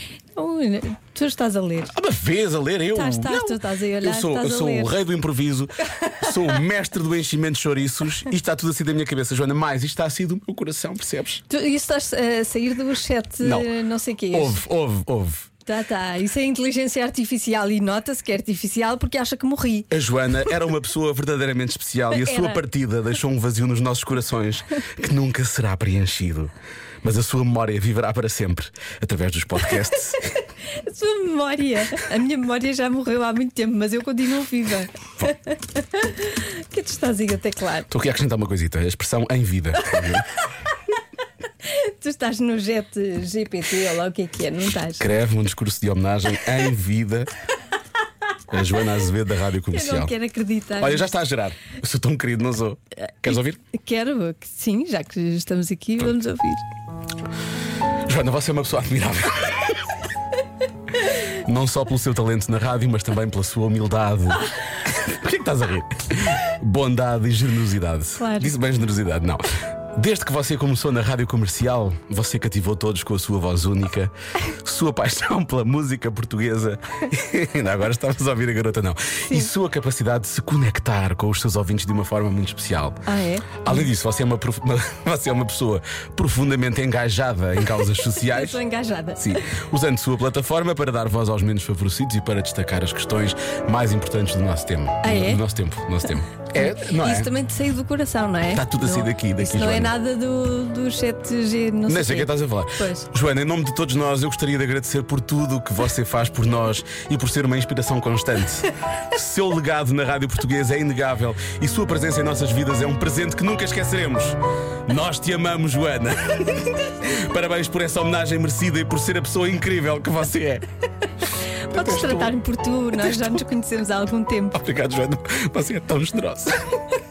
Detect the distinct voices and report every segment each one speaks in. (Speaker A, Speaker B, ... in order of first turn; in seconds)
Speaker A: 0.3-1.9, 3.0-4.9, 11.5-14.6, 15.7-19.9, 22.1-22.6, 30.8-34.9, 35.8-37.9, 41.6-45.0, 49.7-51.1, 53.7-56.6, 68.2-68.5, 83.1-83.8, 88.1-89.2, 95.0-95.4, 96.5-103.1, 121.7-124.6
Speaker B: 1.9-11.4, 13.4-13.7, 14.3-15.5, 19.9-30.2, 37.9-40.2, 45.0-47.3, 48.5-50.1, 50.8-53.6, 58.1-59.8, 61.4-64.5, 65.0-83.0, 83.6-88.6, 89.2-97.3, 98.5-100.0, 101.9-120.7, 121.7-122.4, 122.9-123.5, 124.5-126.6